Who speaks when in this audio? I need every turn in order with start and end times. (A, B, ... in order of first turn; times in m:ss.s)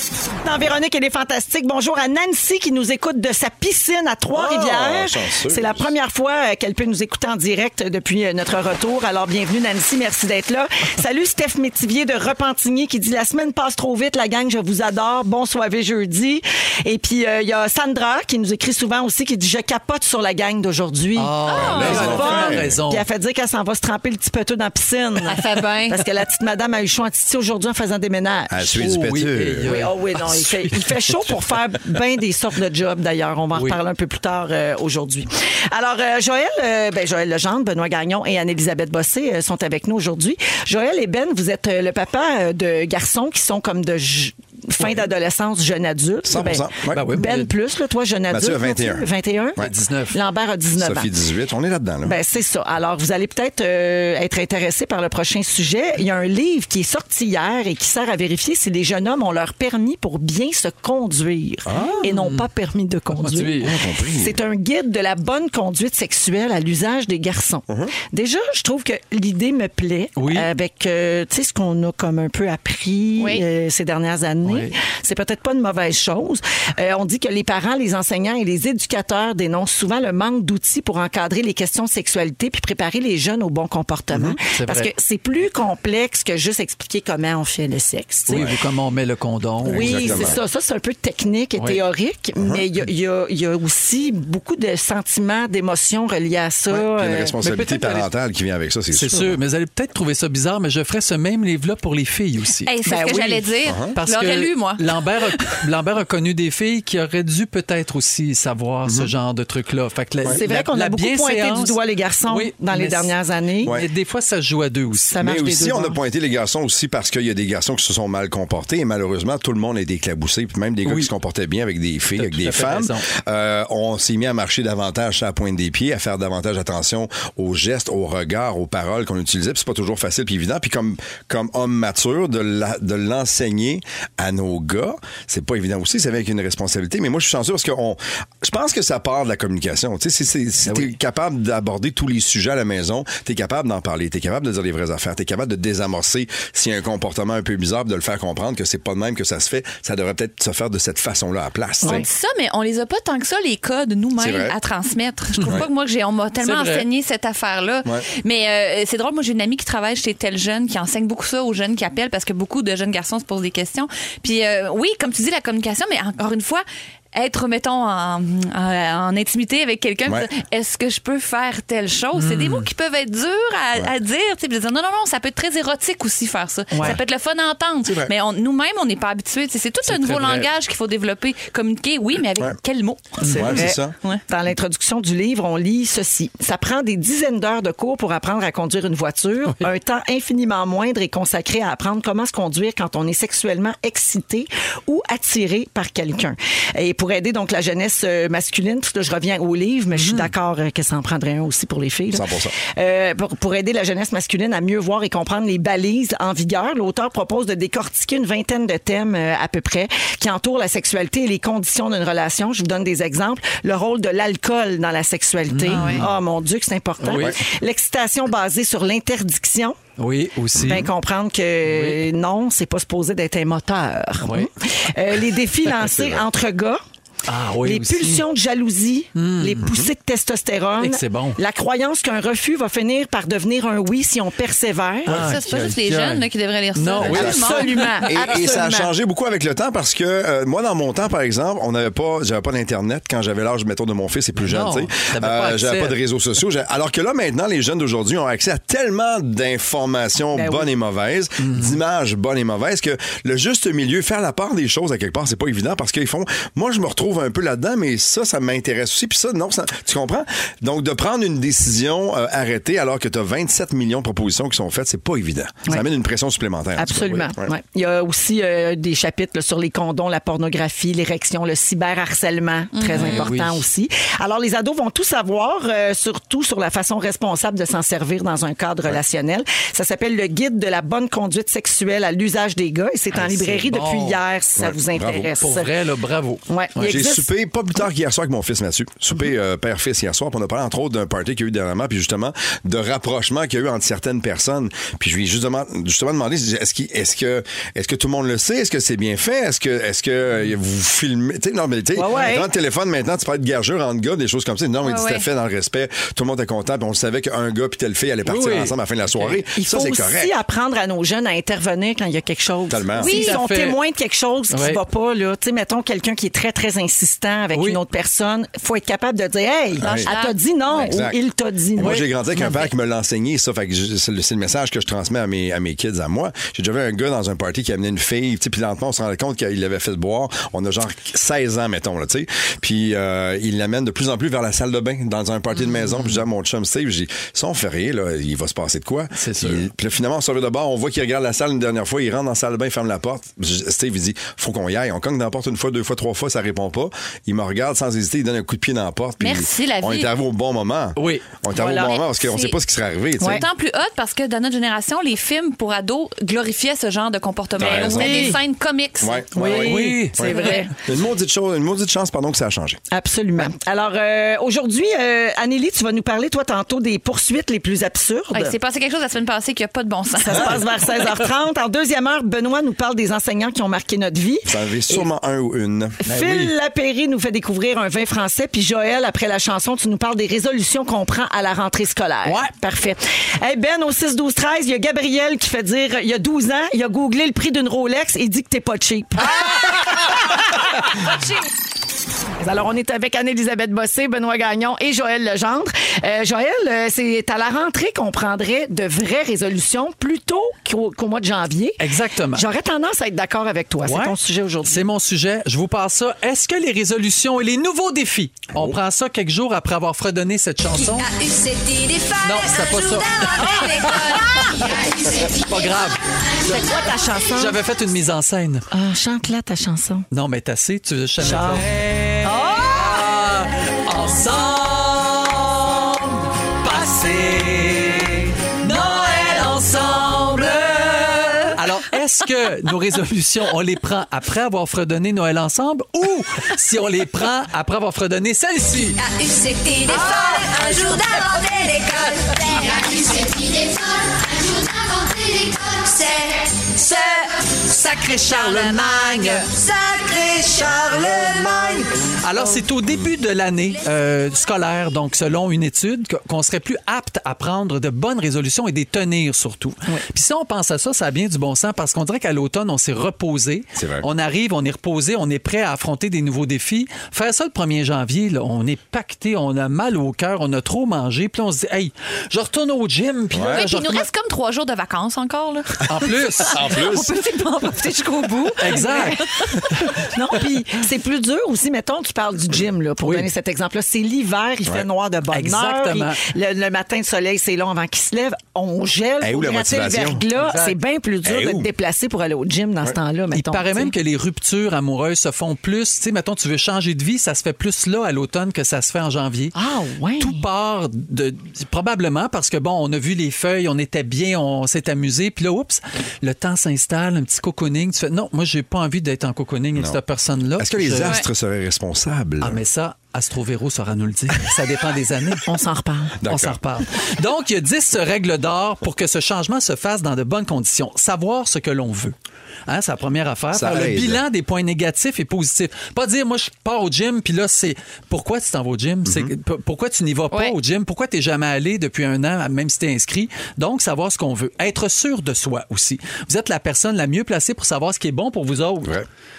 0:00.4-0:28.8 A
0:04.3-0:05.9 B
0:21.2-0:23.1 C
0:21.5-0:22.3 D
0:21.5-0:22.8 B
0:25.3-0:26.0 D
0:28.5-0:29.8 B
0:28.8-0:30.7 C
0:29.7-0:51.1 A
0:33.5-0:33.8 C
0:46.3-0:47.1 B
0:46.9-0:47.5 C
0:48.3-0:49.7 B
0:49.6-0:50.2 C
0:50.8-0:52.2 B
0:52.0-1:28.4 A
1:01.7-1:02.0 B
1:02.0-1:02.4 C
1:03.1-1:03.8 C
1:03.6-1:04.4 B
1:10.2-1:10.5 C
1:13.2-1:13.4 D
1:14.4-1:14.7 C
1:24.2-1:24.9 C
1:28.3-1:30.4 C
1:28.3-1:28.6 B
1:29.6-1:30.4 B
1:29.6-1:37.4 A
1:36.7-1:39.4 B
1:37.4-1:38.1 C
1:38.9-1:42.7 C
1:42.7-1:44.9 D
1:42.9-1:43.5 A
1:43.7-1:43.9 B
1:44.0-1:55.2 C
1:48.8-1:49.1 B
1:50.3-1:53.8 A
1:55.1-1:56.0 A
1:55.2-2:32.0 B
2:00.8-2:01.1 C
2:02.2-2:03.0 C
2:20.7-2:20.9 C
2:31.8-3:03.2 D
2:34.2-2:34.6 B
2:36.4-2:36.9 C
2:52.2-2:52.7 C
2:57.8-2:58.1 B
2:59.9-3:00.5 C
3:03.2-3:03.6 C
3:03.3-3:39.8 A
3:03.3-3:03.9 B
3:20.0-3:20.3 C
3:22.1-3:22.6 B
3:35.5-3:36.1 C
3:35.7-3:36.0 D
3:37.0-3:37.4 C
3:40.0-3:40.9 C
3:40.6-3:46.8 A
3:41.7-3:42.0 C
3:44.2-3:44.5 C
3:45.8-3:46.2 B
3:47.3-3:48.2 C
3:47.6-3:55.2 A
3:49.2-3:49.6 C
3:50.8-3:51.4 C
3:55.1-3:58.0 C
3:55.1-3:57.8 D
3:57.0-3:57.4 B
3:57.1-3:58.9 A
3:58.1-4:27.5 B
4:04.4-4:06.0 C
4:10.4-4:10.7 A
4:11.4-4:11.8 C
4:26.8-4:45.7 A
4:32.8-4:33.3 D
4:32.9-4:33.6 C
4:43.1-4:44.2 C
4:44.6-4:45.3 B
4:45.4-4:47.0 C
4:46.5-4:47.3 A
4:46.8-5:10.3 B
5:02.0-5:02.5 A
5:04.8-5:05.2 D
5:08.3-5:09.4 C
5:09.6-5:22.6 A
5:12.7-5:13.1 B
5:13.0-5:13.4 D
5:13.1-5:13.8 C
5:14.5-5:14.8 C
5:17.5-5:17.8 C
5:19.8-5:20.1 B
5:19.8-5:20.8 D
5:20.8-5:21.2 B
5:21.8-5:53.4 B
5:21.8-5:22.1 C
5:39.2-5:39.7 C
5:49.2-5:50.1 D
5:51.0-5:51.3 C
5:51.6-5:51.9 A
5:51.7-5:52.6 D
5:53.2-5:59.3 D
5:57.6-5:58.3 B
5:57.7-5:58.4 A
5:59.0-6:00.3 B
5:59.3-6:00.7 A
5:59.6-6:00.3 C
6:00.3-6:00.6 D
6:00.8-6:02.8 B
6:02.9-6:08.6 A
6:08.3-6:10.6 D
6:10.2-6:15.0 A
6:14.5-6:16.0 B
6:16.0-6:30.4 A
6:16.1-6:16.5 C
6:22.3-6:22.5 C
6:32.4-6:44.8 A
6:41.8-6:42.5 C
6:43.8-6:51.1 C
6:50.8-6:55.8 E
6:52.2-6:54.7 C
6:53.7-6:54.4 D
6:55.4-6:56.0 C
6:56.4-6:57.6 A
6:57.4-6:58.6 C
6:58.7-7:00.1 A
7:00.1-7:19.0 C
7:01.2-7:01.7 A
7:02.2-7:03.0 A
7:19.0-7:27.0 E
7:19.9-7:21.3 D
7:22.4-7:22.9 D
7:28.0-7:29.4 C
7:28.1-7:29.5 D
7:29.6-7:31.8 E
7:32.2-7:54.1 C
7:43.8-7:44.1 B
7:53.3-7:53.6 B
7:53.5-7:59.2 D
7:55.9-7:56.8 C
7:56.5-7:57.1 B
7:58.6-7:59.2 C
7:58.7-7:59.2 A
8:00.1-8:13.9 A
8:03.0-8:03.3 C
8:05.3-8:06.2 C
8:09.2-8:10.2 B
8:10.4-8:10.8 C
8:11.3-8:11.7 B
8:13.3-8:19.5 C
8:19.5-8:20.4 A
8:20.2-8:31.2 C
8:30.6-8:32.6 B
8:32.4-8:35.4 C
8:35.5-8:36.2 A
8:36.2-8:36.6 B
8:36.3-8:42.1 C
8:42.7-8:58.9 C
8:43.5-8:44.2 B
8:49.1-8:49.3 B